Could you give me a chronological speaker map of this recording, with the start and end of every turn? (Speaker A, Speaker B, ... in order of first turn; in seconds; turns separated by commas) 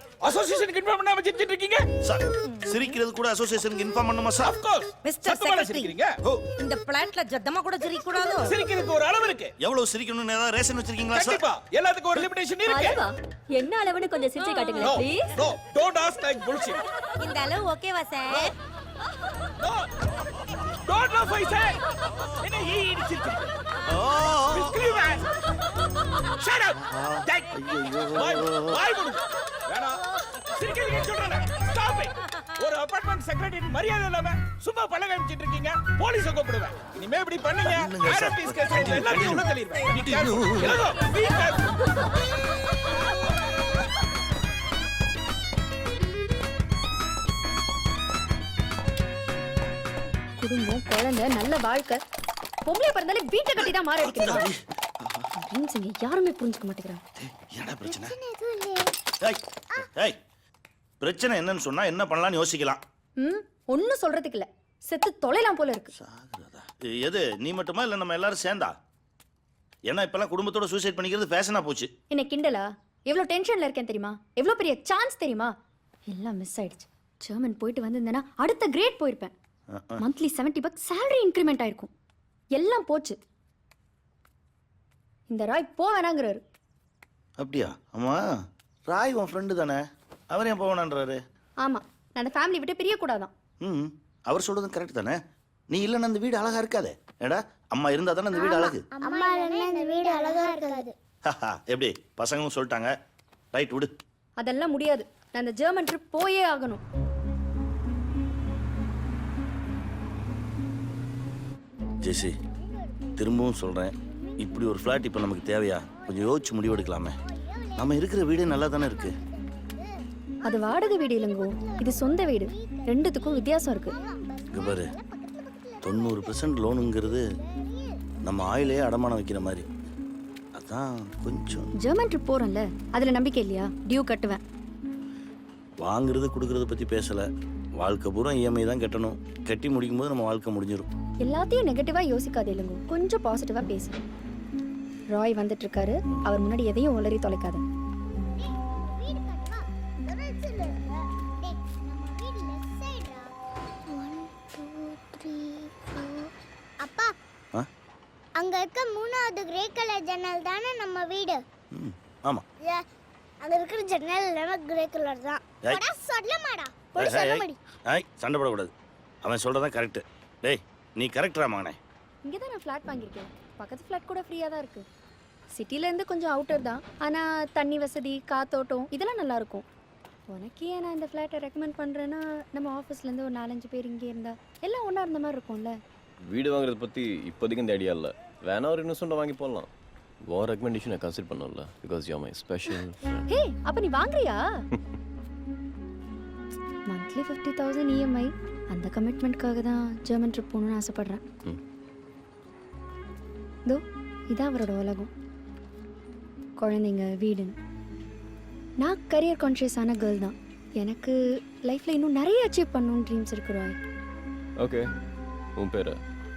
Speaker A: 0.2-1.9, Speaker B: 2.0-4.6, Speaker A: 4.5-6.4, Speaker C: 5.0-5.9, Speaker C: 6.6-8.6, Speaker A: 8.5-9.5, Speaker B: 9.6-11.4, Speaker A: 11.2-13.0, Speaker D: 12.7-15.3, Speaker C: 14.4-15.0, Speaker A: 14.8-16.8, Speaker C: 17.2-18.5, Speaker A: 20.9-21.8, Speaker A: 22.4-23.5, Speaker B: 23.9-25.1, Speaker A: 24.5-25.2, Speaker A: 26.4-26.8, Speaker B: 26.8-28.8, Speaker A: 28.1-30.0, Speaker A: 30.5-41.6, Speaker B: 37.6-40.8, Speaker D: 50.4-52.0, Speaker D: 52.6-54.5, Speaker B: 53.6-55.3, Speaker D: 55.4-57.0, Speaker B: 57.2-58.1, Speaker E: 57.9-58.8, Speaker B: 59.2-60.2, Speaker B: 61.0-62.8, Speaker D: 63.2-65.9, Speaker B: 65.9-68.7, Speaker B: 69.9-71.9, Speaker D: 72.1-75.5, Speaker D: 76.1-79.3, Speaker B: 79.7-80.0, Speaker D: 80.0-81.9, Speaker D: 82.5-83.2, Speaker D: 85.3-86.4, Speaker B: 87.4-88.2, Speaker B: 88.9-89.8, Speaker B: 90.3-91.2, Speaker D: 91.6-93.3, Speaker B: 93.6-95.2, Speaker B: 95.7-98.8, Speaker E: 98.3-100.9, Speaker B: 101.3-102.9, Speaker B: 103.5-103.9, Speaker D: 104.4-106.8, Speaker B: 112.0-112.3, Speaker E: 112.4-113.2, Speaker B: 113.2-117.2, Speaker E: 114.2-114.6, Speaker E: 115.8-118.0, Speaker B: 117.8-119.2, Speaker E: 118.7-119.9, Speaker E: 120.4-128.7, Speaker D: 120.4-123.9, Speaker B: 124.5-124.9, Speaker B: 125.8-127.2, Speaker B: 128.2-129.7, Speaker B: 130.6-131.7, Speaker D: 131.8-134.4, Speaker B: 135.8-137.2, Speaker B: 137.8-140.9, Speaker D: 141.2-144.0, Speaker D: 145.1-147.6, Speaker E: 148.3-153.3, Speaker E: 153.9-156.3, Speaker E: 156.8-157.1, Speaker E: 158.4-161.4, Speaker B: 161.7-162.4, Speaker E: 163.4-167.6, Speaker B: 166.9-168.7, Speaker B: 169.2-171.8, Speaker D: 172.2-174.8, Speaker D: 175.5-179.6, Speaker D: 180.3-185.8, Speaker F: 186.2-189.7, Speaker F: 190.2-193.3, Speaker D: 193.3-194.4, Speaker D: 196.9-201.2, Speaker D: 203.7-205.1, Speaker D: 206.6-207.5, Speaker D: 208.8-213.8, Speaker F: 214.6-214.8, Speaker F: 215.6-216.0